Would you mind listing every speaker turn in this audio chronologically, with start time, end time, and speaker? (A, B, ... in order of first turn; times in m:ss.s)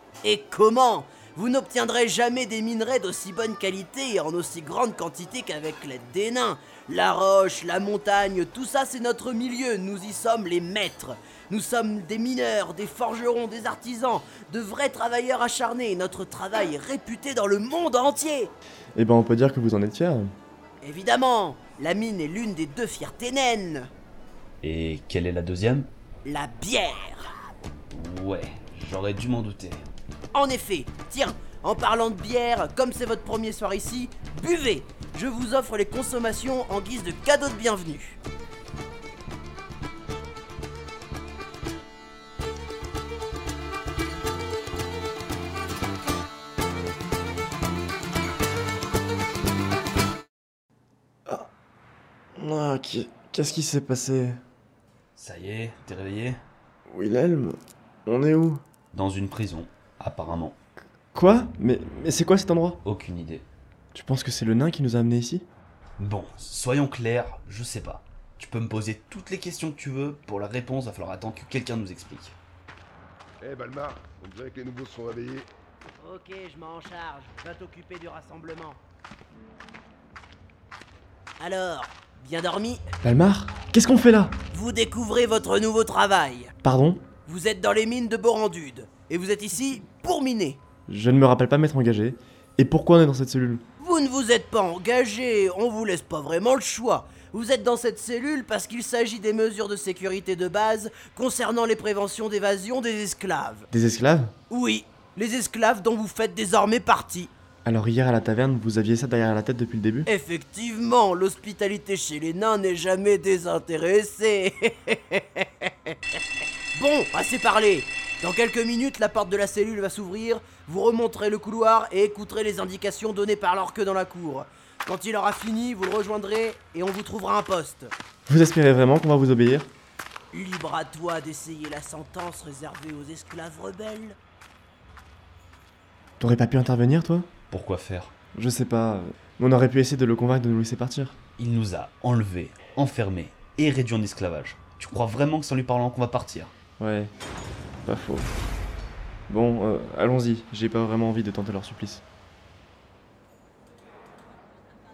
0:00.2-0:18.5 A
0:19.0-0:20.3 B
0:20.8-0:23.9 A
0:24.6-0:25.9 C
0:26.2-0:27.3 A
0:27.9-0:29.9 C
0:30.3-0:38.2 A
0:52.4-0:54.4 B
0:55.2-0:56.4 C
0:56.9-0:58.6 B
0:58.9-1:00.6 C
1:01.1-1:02.8 B
1:02.8-1:03.5 C
1:03.9-1:05.5 B
1:06.0-1:12.4 C
1:13.4-1:15.5 D
1:16.0-1:18.8 A
1:21.4-1:22.8 A
1:23.0-1:24.4 B
1:24.5-1:26.5 A
1:26.6-1:27.1 B
1:27.2-1:30.6 A
1:30.9-1:33.6 B
1:33.8-1:43.7 A
1:43.7-1:44.4 B
1:44.5-1:47.3 A
1:47.6-1:50.1 B
1:50.1-1:56.0 A
1:56.8-2:07.9 A
2:08.3-2:09.7 B
2:10.3-2:14.2 A
2:16.2-2:17.3 B
2:17.5-2:18.1 C
2:18.4-2:21.2 B
2:21.4-2:26.5 C
2:26.8-2:27.1 B
2:27.8-2:28.3 B
2:29.3-2:32.0 B